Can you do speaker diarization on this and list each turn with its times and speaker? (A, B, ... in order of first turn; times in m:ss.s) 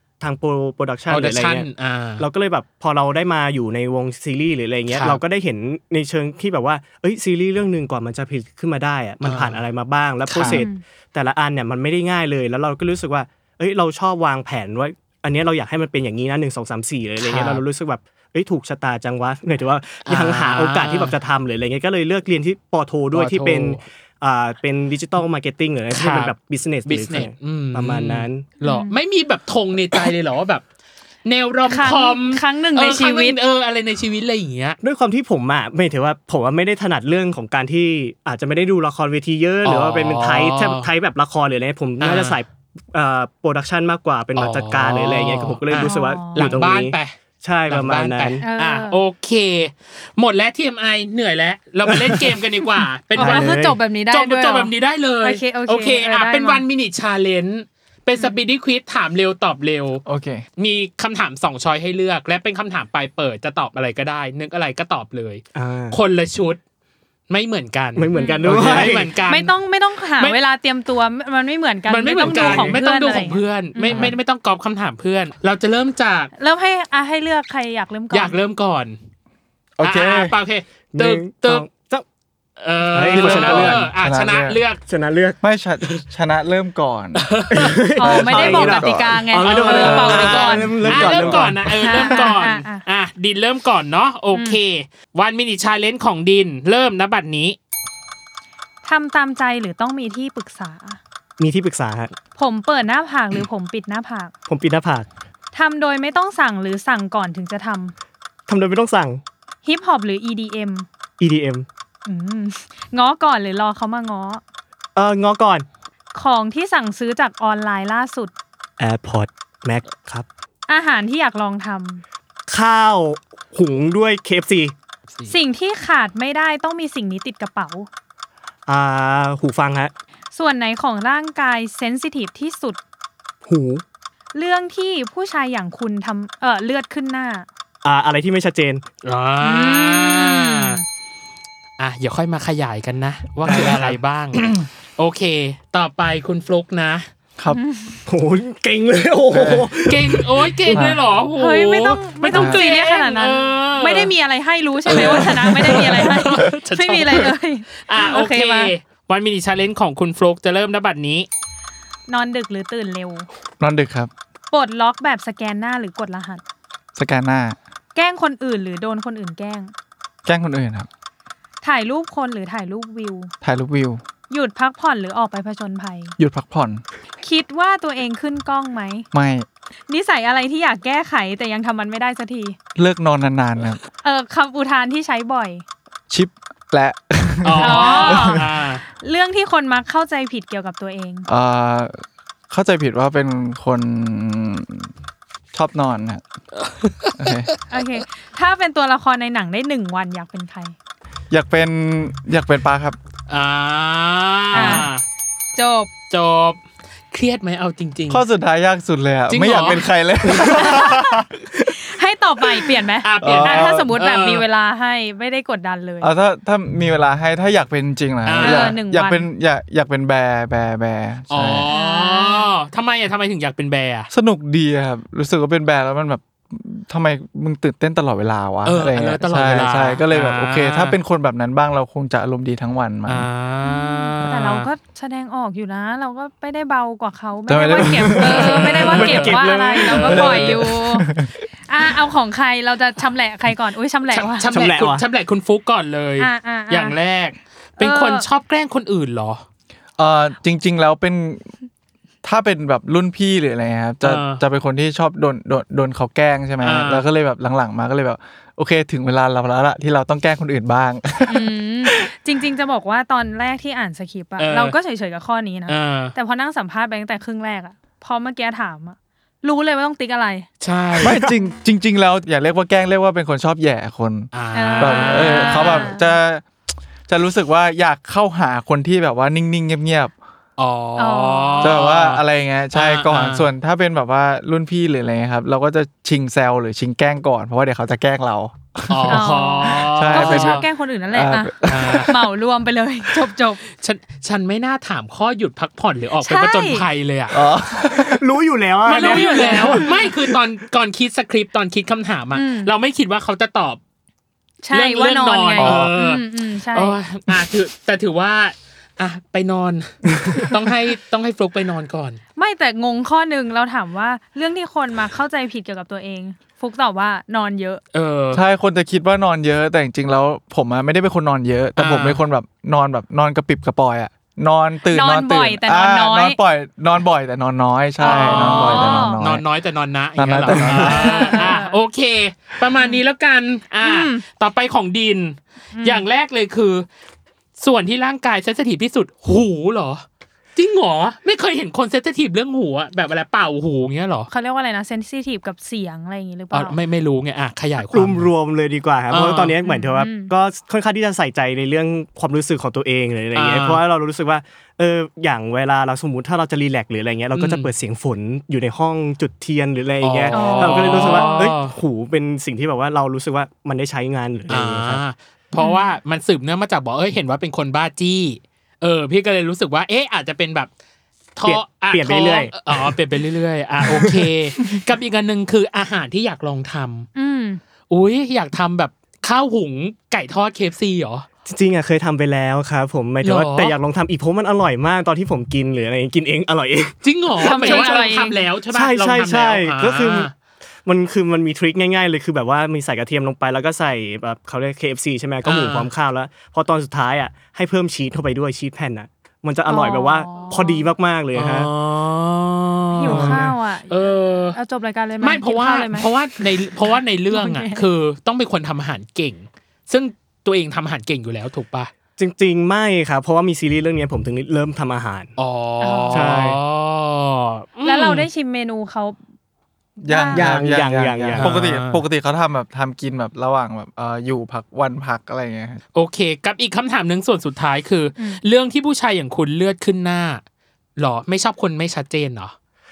0:00.2-0:01.7 A
0:01.1-0:02.3 B
0:02.2-0:28.5 A
0:04.9-0:05.2 B
0:09.2-0:09.6 B
0:10.3-0:10.6 B
0:10.5-0:10.8 C
0:17.2-0:17.6 B
0:20.1-0:21.2 B
0:23.1-0:23.8 B
0:25.9-0:26.3 B
0:26.8-0:30.6 B
0:28.6-0:29.0 C
0:31.2-0:34.8 B
0:31.7-0:33.4 C
0:34.8-0:48.4 A
0:39.6-0:40.9 B
0:42.0-0:42.4 B
0:44.4-0:47.1 B
0:45.8-0:46.5 C
0:47.7-0:53.6 B
0:48.4-0:49.0 C
0:51.9-0:52.4 A
0:53.1-0:53.8 A
0:53.2-0:56.6 C
0:54.1-1:00.0 B
1:00.0-1:00.4 D
1:00.6-1:06.6 B
1:05.6-1:06.0 A
1:07.3-1:09.5 B
1:08.0-1:09.1 A
1:08.1-1:08.5 C
1:09.3-1:14.2 C
1:11.9-1:16.3 B
1:12.2-1:12.8 A
1:13.9-1:14.2 A
1:16.4-1:18.4 C
1:18.1-1:19.0 B
1:19.8-1:20.4 D
1:19.8-1:21.7 B
1:20.9-1:22.0 A
1:22.6-1:24.8 B
1:22.9-1:23.9 A
1:23.1-1:24.6 D
1:24.9-1:26.0 A
1:25.4-1:29.2 D
1:27.2-1:27.8 B
1:27.5-1:32.3 A
1:28.0-1:31.0 C
1:29.4-1:37.6 B
1:29.8-1:31.5 D
1:31.8-1:32.8 C
1:34.3-1:34.6 C
1:38.8-1:41.0 C
1:41.4-1:42.1 A
1:42.4-1:44.3 C
1:44.5-1:45.1 A
1:45.5-1:47.9 C
1:48.5-1:49.2 A
1:49.6-1:50.9 C
1:51.2-1:51.7 A
1:52.1-1:54.4 C
1:55.0-1:55.7 A
1:56.1-1:58.3 C
1:58.8-2:00.3 A
2:00.7-2:02.0 C
2:02.5-2:04.7 A
2:05.3-2:07.9 C
2:08.7-2:09.9 A
2:10.3-2:12.8 C
2:13.4-2:13.8 A
2:14.3-2:17.5 C
2:17.8-2:18.8 A
2:19.0-2:20.8 B
2:19.4-2:20.8 C
2:21.8-2:27.1 B
2:23.4-2:24.0 A
2:24.4-2:24.7 D
2:27.5-2:28.0 C
2:28.1-2:30.6 A
2:29.3-2:29.7 D
2:29.9-2:34.1 B
2:30.7-2:31.0 D
2:31.4-2:38.7 C
2:32.3-2:32.6 D
2:34.9-2:41.3 B
2:34.9-2:36.5 D
2:42.1-2:43.3 C
2:43.6-2:44.1 D
2:44.5-2:46.4 C
2:47.0-2:47.6 D
2:48.0-2:49.7 C
2:50.2-2:50.9 D
2:51.6-2:53.3 C
2:53.4-2:54.0 D
2:54.3-2:56.2 C
2:56.2-2:56.8 D
2:57.2-2:59.1 C
2:59.1-2:59.5 D
2:59.9-3:02.6 C
3:02.8-3:03.8 D
3:04.0-3:05.6 C
3:06.1-3:08.6 D
3:07.4-3:08.8 B
3:07.6-3:11.3 C
3:11.3-3:14.9 D
3:15.5-3:16.2 D
3:16.6-3:17.5 B
3:17.2-3:17.5 D
3:17.7-3:20.8 C
3:21.3-3:23.0 D
3:23.3-3:25.0 B
3:24.5-3:24.9 D
3:24.5-3:24.9 C
3:25.6-3:25.9 C
3:26.1-3:28.2 B
3:28.1-3:31.4 D
3:29.3-3:29.9 B
3:30.3-3:30.7 A
3:30.6-3:31.0 C
3:31.8-3:36.1 C
3:33.0-3:34.4 B
3:33.2-3:33.9 D
3:36.0-3:41.7 D
3:38.3-3:38.8 B
3:38.4-3:39.3 C
3:41.3-3:44.1 B
3:41.7-3:42.5 C
3:44.1-3:53.3 D
3:48.6-3:51.0 B
3:53.1-3:54.7 B
3:53.6-4:01.1 C
3:57.5-3:59.1 D
3:58.1-4:00.5 B
3:58.2-4:00.2 A
4:00.0-4:01.3 D
4:01.7-4:04.5 C
4:04.1-4:09.4 B
4:04.5-4:05.0 A
4:06.2-4:07.0 C
4:07.8-4:08.3 C
4:10.0-4:11.5 D
4:12.2-4:22.1 D
4:14.0-4:14.4 B
4:16.6-4:17.0 B
4:21.3-4:30.5 C
4:24.4-4:24.8 B
4:25.7-4:26.2 B
4:30.6-4:31.3 B
4:31.0-4:36.5 D
4:34.3-4:35.9 B
4:34.5-4:36.2 C
4:37.1-4:40.1 D
4:40.6-4:43.5 B
4:41.0-4:41.8 C
4:41.6-4:52.1 D
4:48.9-4:50.7 B
4:49.1-4:53.6 C
4:51.7-4:52.1 B
4:53.8-4:57.4 B
4:56.2-4:56.9 C
4:57.3-4:58.2 D
4:57.9-5:00.0 A
4:58.9-5:03.8 B
4:59.0-4:59.9 C
5:02.3-5:02.7 C
5:04.6-5:07.0 C
5:04.7-5:12.2 B
5:05.6-5:05.9 D
5:12.4-5:17.8 C
5:17.9-5:18.4 B
5:18.3-5:29.4 D
5:21.8-5:22.2 B
5:24.9-5:26.4 C
5:28.0-5:29.2 C
5:28.0-5:36.8 B
5:30.2-5:31.5 D
5:30.8-5:31.8 C
5:33.8-5:34.2 C
5:35.7-5:36.1 C
5:37.6-5:40.0 B
5:40.6-5:44.3 B
5:44.3-5:46.8 C
5:46.5-5:48.3 B
5:47.9-6:05.0 A
5:49.1-5:49.6 B
5:49.6-5:50.3 C
5:53.3-5:53.8 B
5:57.3-5:57.7 B
6:00.0-6:01.8 B
6:00.3-6:01.5 C
6:04.5-6:10.7 B
6:05.6-6:05.9 C
6:11.4-6:17.1 B
6:11.5-6:13.0 A
6:13.8-6:14.3 A
6:17.2-6:17.6 C
6:17.9-6:21.3 B
6:21.5-6:28.1 A
6:23.2-6:23.8 B
6:27.0-6:30.3 B
6:27.4-6:28.5 C
6:28.7-6:30.3 A
6:30.8-6:41.7 A
6:35.4-6:35.9 B
6:39.7-6:40.9 C
6:41.3-6:44.6 B
6:42.9-6:46.1 C
6:43.0-6:43.6 A
6:45.2-6:51.9 B
6:47.3-6:47.8 C
6:52.2-6:55.3 A
6:55.4-6:58.3 B
6:55.8-6:56.3 C
6:56.1-6:56.6 A
6:57.8-6:59.2 C
7:00.0-7:05.8 D
7:00.0-7:00.5 C
7:00.3-7:01.5 A
7:01.4-7:02.0 B
7:06.0-7:10.4 B
7:11.0-7:12.5 B